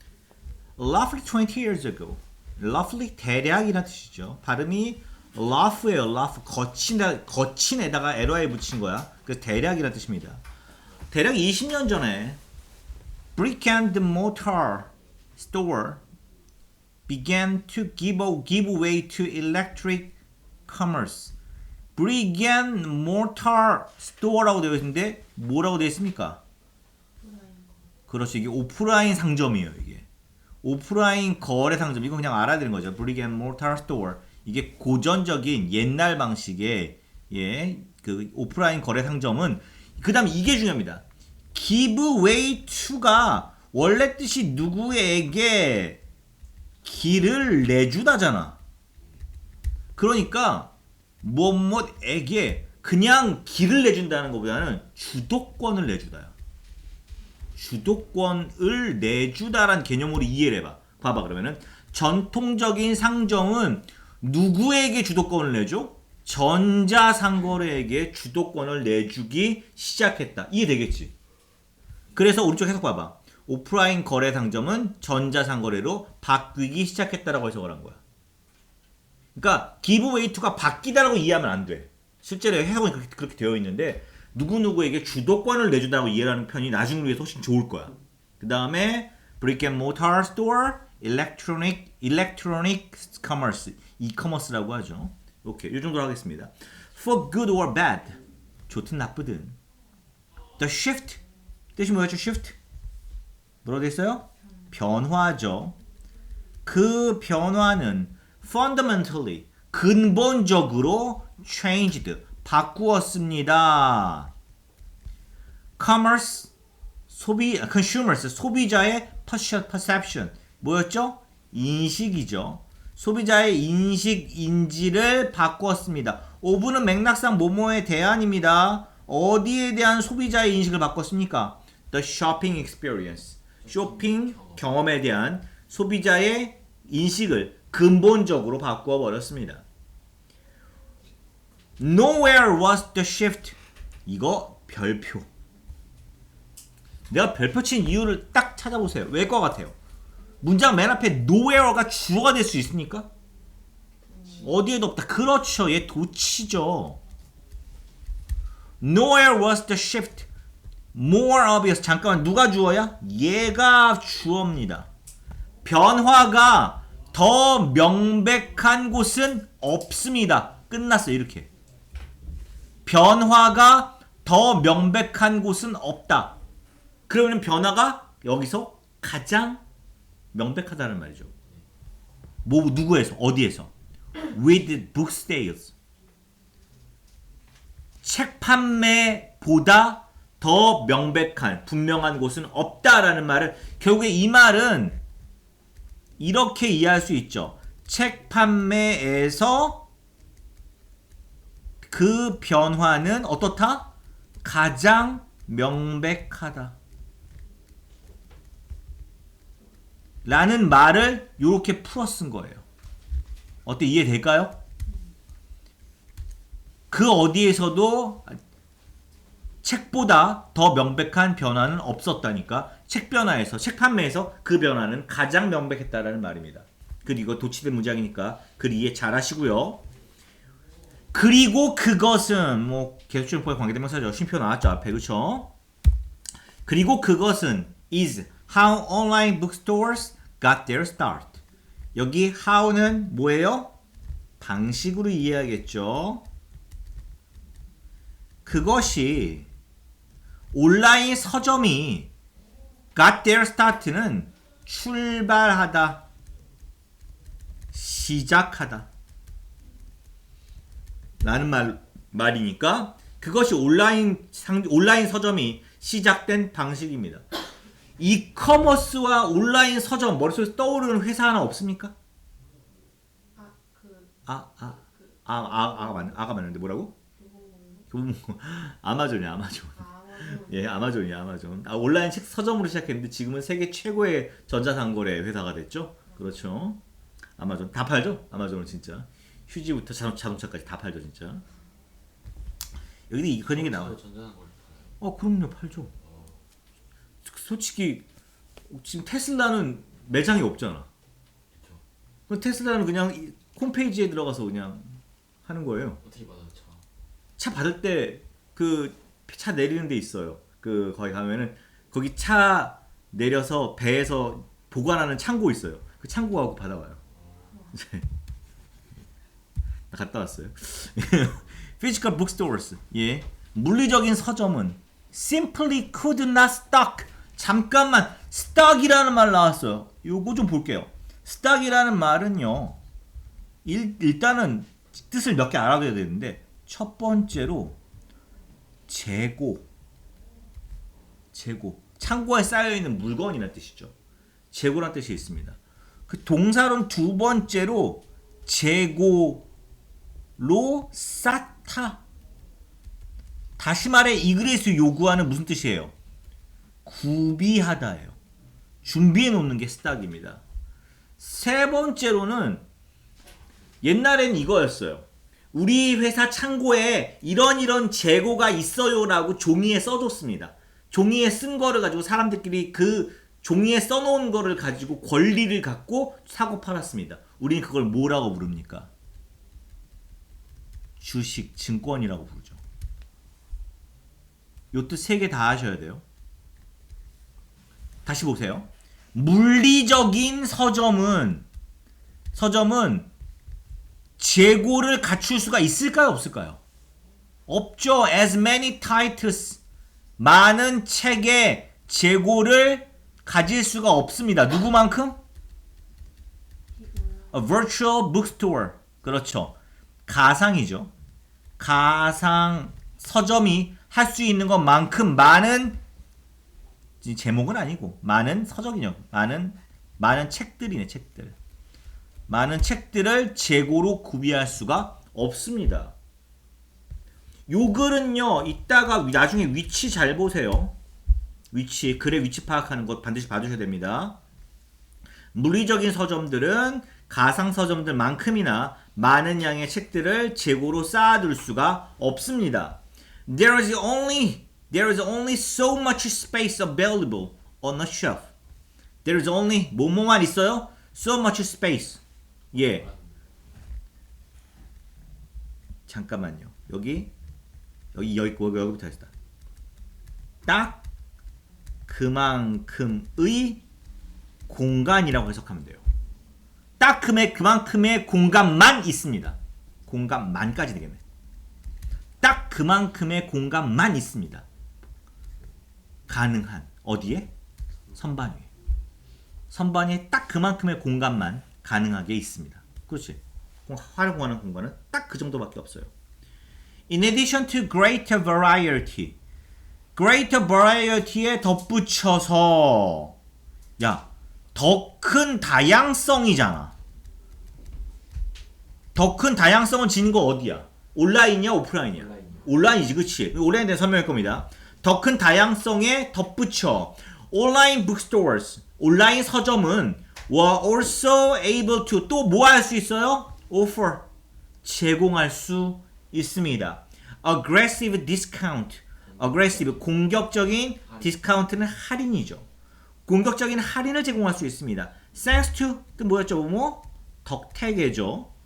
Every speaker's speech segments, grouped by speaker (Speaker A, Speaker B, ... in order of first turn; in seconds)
Speaker A: 0.8-10.4, 11.1-12.4, 13.4-16.0, 17.1-20.1, 20.7-21.3, 22.0-26.4, 28.1-30.1, 30.6-46.0, 46.8-48.6, 50.0-56.3, 57.6-71.1, 72.2-78.0, 79.3-99.6, 100.6-101.2, 101.8-102.6, 103.6-105.8, 106.7-114.3, 115.8-116.5, 117.1-139.7, 141.8-145.3, 147.1-149.8, 150.4-153.1, 154.3-157.0, 158.8-160.3, 160.9-164.9, 165.7-171.5, 172.9-176.4, 177.1-179.6, 180.3-181.3, 182.4-183.7, 184.2-185.7, 188.0-195.0, 196.2-199.8, 201.8-203.9, 204.4-206.8, 210.2-212.6, 213.7-214.6, 216.9-218.4, 219.6-229.8, 231.1-235.5, 236.7-241.4, 241.9-243.7, 244.4-246.2, 248.5-249.5, 250.5-252.1, 252.9-256.0, 257.7-258.9, 261.2-267.2, 268.0-271.9, 274.3-276.9, 277.9-286.8, 287.4-291.4, 293.1-294.0, 295.0-295.9, 297.2-298.1, 298.7-300.9, 302.3-306.0, 307.4-317.0, 317.7-318.1, 319.9-332.8, 333.6-337.8, 338.9-339.7, 341.3-343.9, 344.5-349.5, 350.4-352.0, 353.6-355.9, 356.9-358.2, 358.8-360.4, 361.2-362.6, 363.8-378.9, 381.0-382.6, 384.7-386.0, 388.1-391.5, 392.3-393.1, 394.2-396.6, 397.5-399.6, 400.2-405.2, 407.3-409.6, 410.1-410.9, 411.6-415.8, 417.0-421.4, 422.3-425.9, 427.5-430.8, 431.5-434.2, 435.3-448.3, 449.0-452.0, 452.5-452.9, 455.9-457.1, 457.9-459.1, 460.5-460.8, 461.9-463.6, 464.5-465.8, 466.8-471.0, 472.2-474.5, 476.1-477.3, 477.9-478.5, 479.5-485.9, 486.9-489.2, 490.0-493.1, 493.8-496.7, 498.9-514.0, 514.6-522.5, 523.1-528.3
Speaker B: 27.2-27.8, 154.1-154.4, 273.4-274.1, 275.4-276.0, 277.2-277.9, 279.8-280.7, 406.8-407.3
Speaker C: 133.6-134.6, 293.5-295.0, 296.0-296.4, 301.6-301.8, 306.0-306.9, 317.2-317.7, 501.9-502.5, 519.1-519.9